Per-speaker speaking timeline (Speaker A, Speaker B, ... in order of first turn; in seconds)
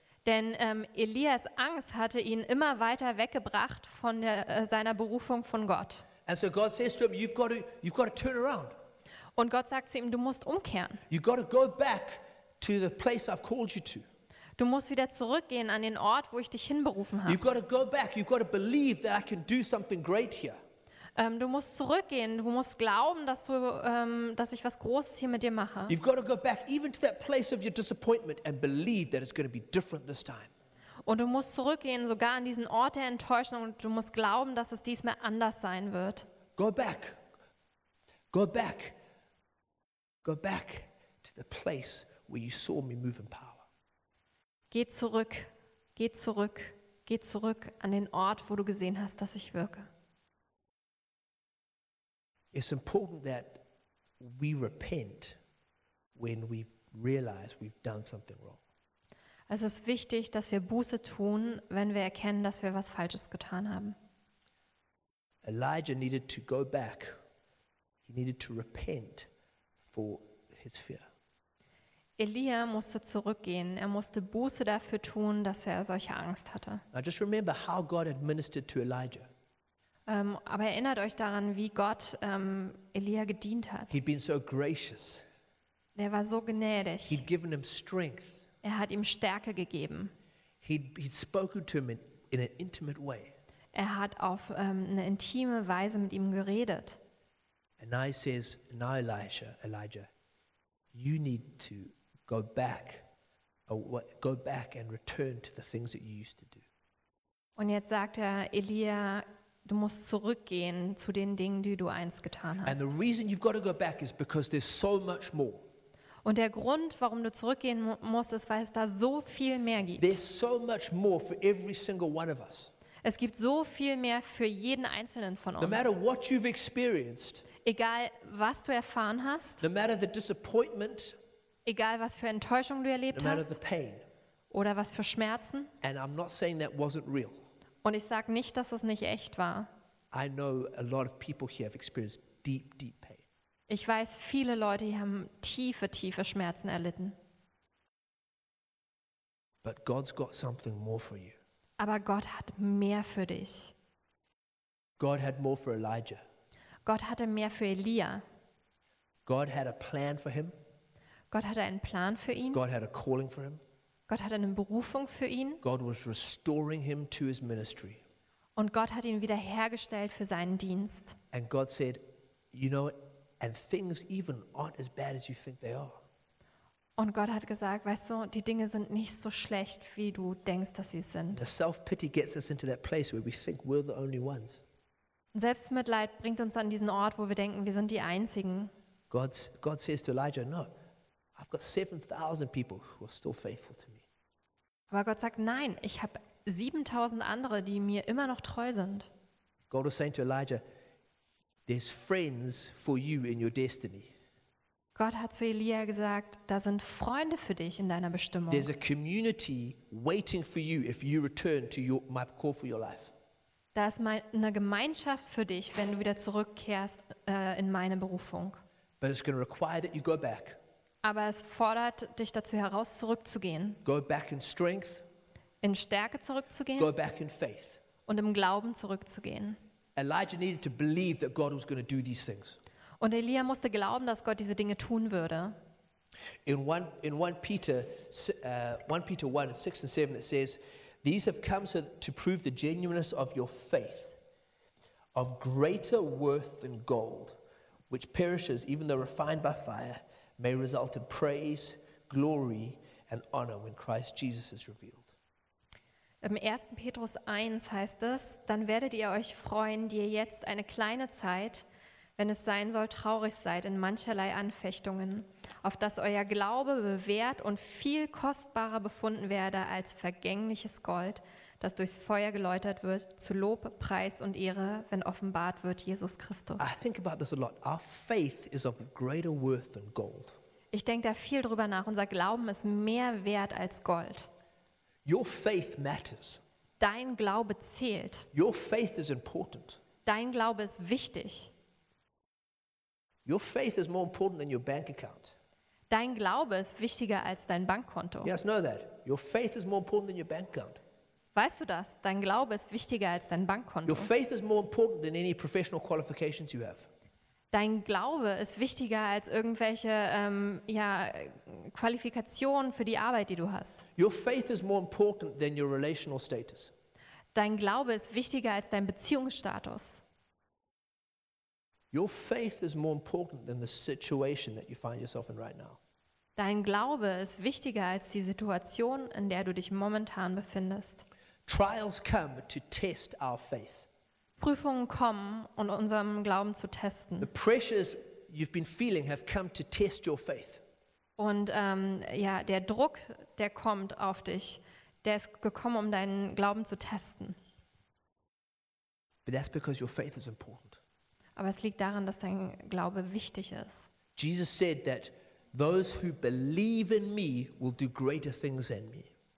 Speaker A: 0.2-6.0, 9.3-11.0, 14.6-17.4, 21.1-25.9, 31.0-36.3, 44.7-49.9, 59.5-64.0, 72.2-76.8, 80.1-83.9, 86.0-87.2, 88.6-90.1, 93.7-97.0, 107.6-112.9, 116.2-120.2, 123.0-125.9, 127.6-129.6, 131.7-133.6, 134.5-135.7, 137.8-139.7, 143.7-147.2, 151.8-153.7, 156.8-158.2, 161.3-162.6, 164.1-165.6, 168.6-171.2, 177.0-181.4, 185.3-188.7, 194.9-199.1, 204.9-208.7, 213.7-218.6, 221.0-223.8, 225.6-226.9, 228.1-229.6, 233.0-235.6, 256.2-261.6, 262.2-276.6, 280.7-284.3, 286.8-288.3, 290.0-291.5, 295.9-298.3, 301.3-304.1, 307.5-313.8, 317.3-320.0, 326.4-331.0, 334.4-337.3, 341.2-347.4, 351.4-353.9
Speaker B: 6.2-8.7, 11.1-14.1, 17.2-20.6, 25.9-30.5, 36.6-37.2, 38.3-39.0, 40.2-43.6, 52.5-53.6, 54.2-55.4, 56.1-58.6, 65.4-67.1, 68.0-69.3, 69.9-71.0, 76.9-79.3, 83.9-85.2, 87.1-88.4, 90.6-93.3, 97.8-100.1, 100.9-103.0, 103.7-106.6, 112.6-115.6, 120.0-122.7, 125.6-127.5, 129.6-131.2, 133.1-134.0, 135.8-137.4, 140.1-143.2, 149.6-151.4, 155.0-156.2, 159.2-160.5, 162.5-163.6, 165.6-168.0, 171.3-176.0, 181.3-184.6, 189.1-190.7, 191.3-194.0, 199.7-200.6, 201.7-204.1, 208.5-213.1, 219.0-220.6, 223.8-225.0, 226.8-227.8, 229.9-232.6, 236.4-244.2, 245.1-247.4, 247.9-255.1, 276.6-280.3, 285.0-286.4, 288.3-289.8, 293.2-295.3, 298.2-300.8, 303.9-306.9, 313.9-316.7, 321.9-325.8, 331.5-333.9, 337.2-340.6, 349.2-350.8, 354.1-359.1